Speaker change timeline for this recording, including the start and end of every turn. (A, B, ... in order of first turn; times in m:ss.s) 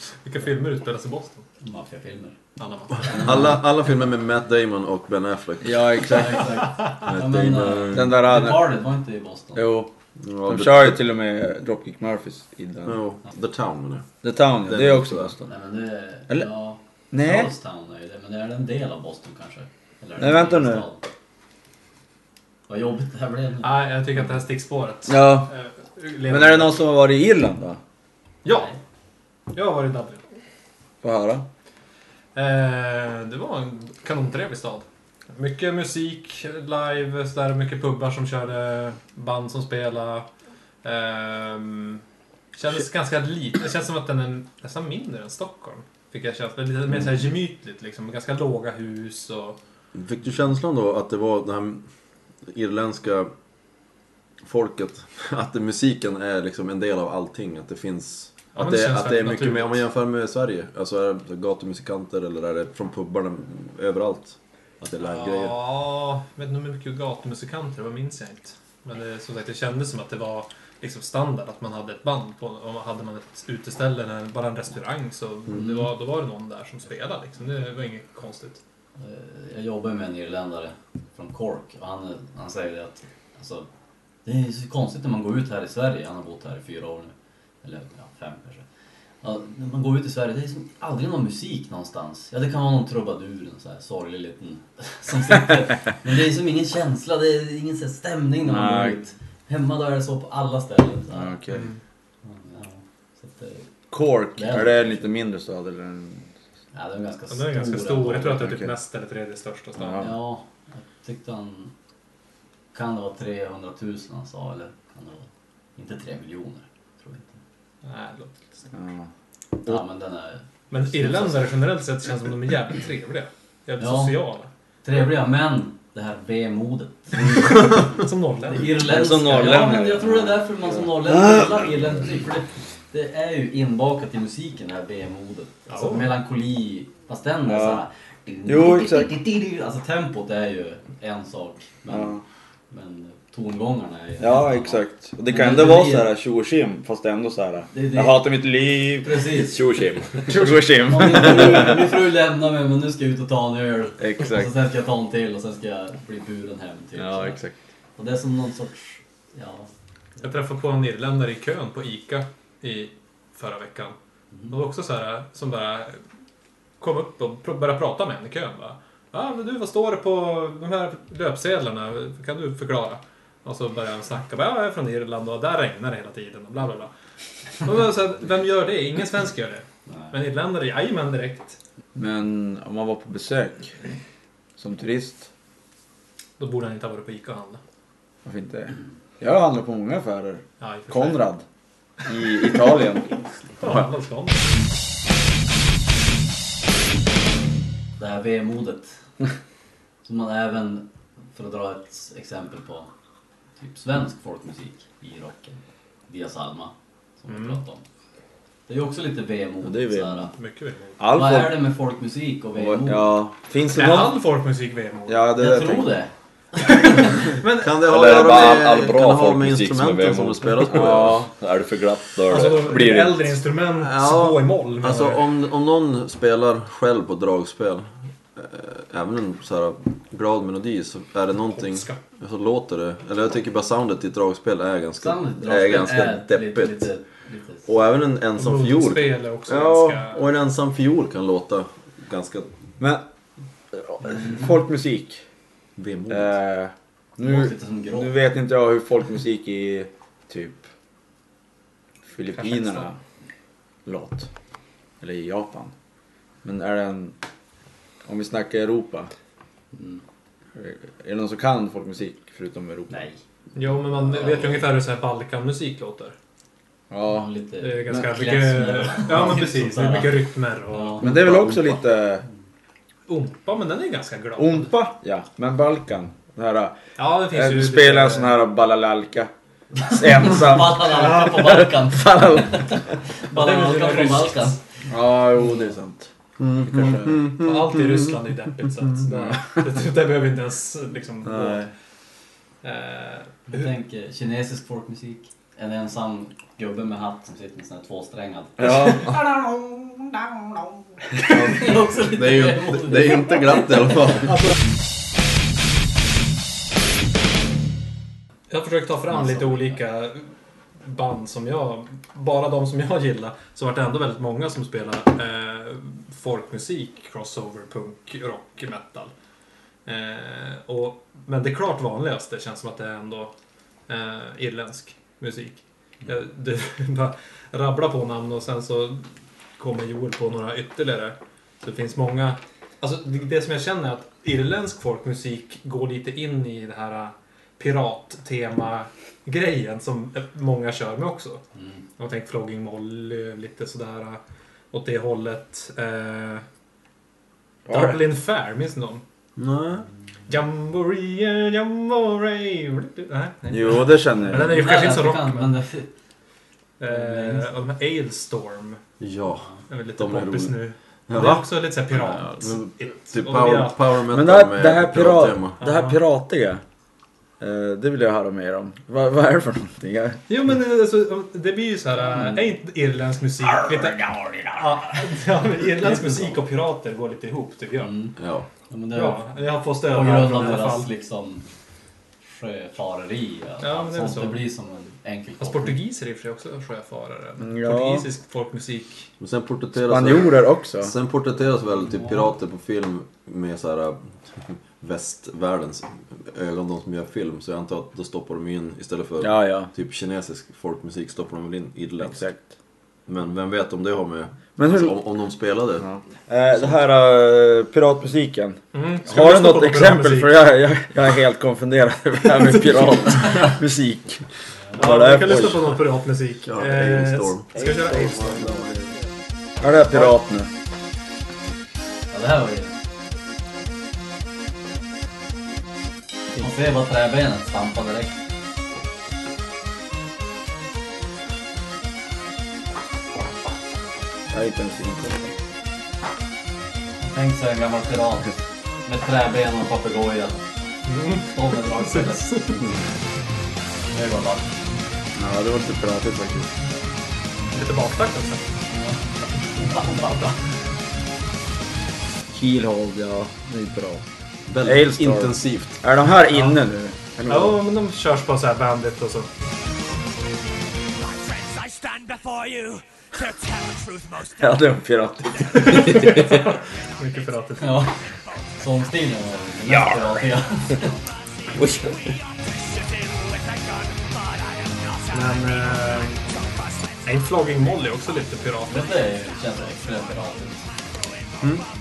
0:00.2-0:01.4 A
0:01.6-0:02.4 B
0:02.6-0:03.4 A
0:03.0-0:06.2 C
0:05.6-0:06.6 D
0:06.1-0:09.6 B
0:07.0-0:08.2 C
0:07.9-0:08.7 D
0:09.5-0:09.9 D
0:10.2-0:11.0 C
0:10.4-0:13.0 D
0:12.8-0:14.1 C
0:14.2-0:15.5 D
0:14.6-0:15.4 C
0:15.4-0:21.0 B
0:17.1-0:17.5 D
0:20.2-0:20.9 D
0:22.7-0:23.8 B
0:23.6-0:26.8 A
0:25.1-0:25.5 D
0:26.3-0:27.8 D
0:28.4-0:28.7 A
0:28.4-0:28.8 B
0:29.5-0:30.2 A
0:31.0-0:31.5 D
0:32.3-0:40.3 A
0:40.8-0:42.0 A
0:42.6-0:49.6 A
0:50.0-0:51.8 C
0:52.5-0:53.3 C
0:54.4-1:05.6 C
0:58.6-0:59.9 A
1:05.0-1:18.6 A
1:19.0-1:23.7 B
1:24.2-1:28.6 B
1:29.2-1:41.4 B
1:38.4-1:39.0 D
1:41.1-1:41.7 D
1:41.5-1:41.8 A
1:42.2-1:43.6 B
1:43.9-1:46.3 D
1:44.3-1:45.0 B
1:46.7-1:48.4 B
1:47.3-1:50.1 A
1:48.2-1:48.7 D
1:49.8-1:50.1 D
1:50.0-1:51.7 B
1:52.7-1:57.4 B
1:57.8-1:58.6 A
1:58.7-1:59.1 D
1:59.6-2:01.5 B
2:00.7-2:04.5 A
2:03.8-2:04.2 B
2:04.8-2:07.4 B
2:07.3-2:08.8 A
2:08.5-2:26.1 B
2:08.6-2:11.7 D
2:15.7-2:16.1 A
2:17.4-2:17.8 D
2:18.4-2:19.1 D
2:21.9-2:22.2 D
2:24.2-2:29.3 D
2:27.7-2:28.3 B
2:29.0-2:29.5 B
2:29.4-2:30.4 E
2:30.2-2:31.9 D
2:30.3-2:37.4 B
2:34.0-2:34.5 D
2:37.0-2:37.6 D
2:38.0-2:39.7 B
2:40.2-2:44.0 A
2:44.5-2:46.0 A
2:46.8-2:56.9 A
2:57.6-3:01.6 A
3:01.9-3:03.7 D
3:04.6-3:05.3 D
3:06.4-3:07.6 A
3:08.2-3:11.4 D
3:10.6-3:11.3 A
3:12.0-3:13.9 D
3:13.6-3:14.5 A
3:18.0-3:19.0 B
3:20.0-3:22.9 B
3:23.6-3:27.8 B
3:27.3-3:27.6 A
3:28.7-3:30.3 B
3:29.6-3:30.3 D
3:30.4-3:31.0 A
3:31.0-3:31.7 D
3:31.1-3:33.2 B
3:32.5-3:34.2 D
3:33.7-3:35.3 A
3:35.1-3:36.0 D
3:35.4-3:37.2 B
3:37.0-3:38.5 A
3:37.4-3:41.2 C
3:37.8-3:42.7 E
3:40.7-3:41.3 D
3:42.3-3:45.2 A
3:42.4-3:43.3 D
3:43.8-3:56.9 C
3:51.4-3:52.0 A
3:55.0-3:57.7 B
3:57.6-4:02.5 C
3:58.4-4:00.3 A
4:02.8-4:03.0 D
4:03.7-4:05.2 D
4:05.8-4:06.4 C
4:06.1-4:10.6 D
4:07.2-4:08.1 B
4:12.1-4:13.0 D
4:12.3-4:12.9 A
4:13.8-4:14.3 D
4:15.0-4:15.7 D
4:16.4-4:17.2 D
4:18.0-4:19.1 D
4:19.7-4:20.0 B
4:20.6-4:23.0 D
4:22.9-4:23.2 B
4:23.6-4:26.1 A
4:23.9-4:24.7 B
4:26.9-4:27.3 D
4:27.0-4:31.4 B
4:27.6-4:31.1 A
4:31.0-4:32.2 D
4:33.1-4:34.7 A
4:34.4-4:36.8 D
4:37.0-4:38.4 A
4:37.3-4:39.3 D
4:39.8-4:42.9 D
4:39.9-4:44.6 B
4:43.3-4:44.6 A
4:44.9-4:46.1 D
4:46.4-4:48.1 C
4:46.6-4:47.2 D
4:47.4-4:51.7 A
4:51.2-4:51.7 D
4:52.6-4:53.7 A
4:53.5-4:59.1 B
4:58.6-4:59.6 D
5:01.2-5:03.7 B
5:01.3-5:04.5 C
5:08.5-5:10.3 A
5:09.1-5:09.8 B
5:10.8-5:19.1 A
5:19.8-5:23.3 A
5:23.9-5:29.0 A
5:29.6-5:41.4 A
5:41.5-5:41.8 B
5:42.0-5:44.2 A
5:44.7-5:46.4 A
5:47.7-5:48.0 D
5:47.7-5:49.0 A
5:49.4-5:49.9 C
5:50.3-5:55.5 A
5:53.5-5:54.7 D
5:54.3-5:55.9 B
5:56.8-5:58.8 A
5:56.8-5:57.5 B
5:59.0-6:00.6 C
5:59.7-6:03.8 A
6:01.1-6:05.6 C
6:04.1-6:06.6 D
6:05.6-6:06.0 A
6:07.4-6:10.2 D
6:10.3-6:17.9 A
6:15.8-6:16.4 B
6:17.8-6:18.1 B
6:18.2-6:18.5 C
6:18.7-6:19.2 B
6:18.9-6:20.9 A
6:19.9-6:21.4 B
6:22.2-6:25.8 B
6:23.6-6:24.5 A
6:25.4-6:29.1 A
6:27.4-6:28.1 D
6:29.2-6:42.2 C
6:29.7-6:30.9 D
6:39.2-6:39.7 D
6:42.0-6:42.4 D
6:43.1-6:45.8 C
6:44.6-6:45.0 D
6:45.8-6:55.8 D
6:48.7-6:50.5 A
6:54.8-6:58.4 A
6:56.4-6:58.9 C
6:59.6-7:00.5 D
7:02.1-7:02.7 B
7:06.4-7:08.2 B
7:14.3-7:15.3 D
7:17.0-7:18.3 B
7:18.8-7:20.4 B
7:20.9-7:22.6 A
7:21.3-7:22.4 B
7:23.9-7:24.5 B
7:25.2-7:26.5 D
7:27.5-7:28.4 A
7:28.7-7:30.3 B
7:29.7-7:30.3 A
7:32.3-7:34.0 D
7:34.5-7:35.8 C
7:34.6-7:37.6 D
7:37.3-7:39.3 A
7:41.0-7:44.5 F
7:44.4-7:46.4 D
7:45.5-7:47.8 A
7:47.6-7:47.9 B
7:48.6-7:50.9 B
7:51.6-7:51.9 D
7:52.0-7:56.1 F
7:55.1-7:56.2 A
7:57.0-7:58.9 A
7:58.7-8:00.6 B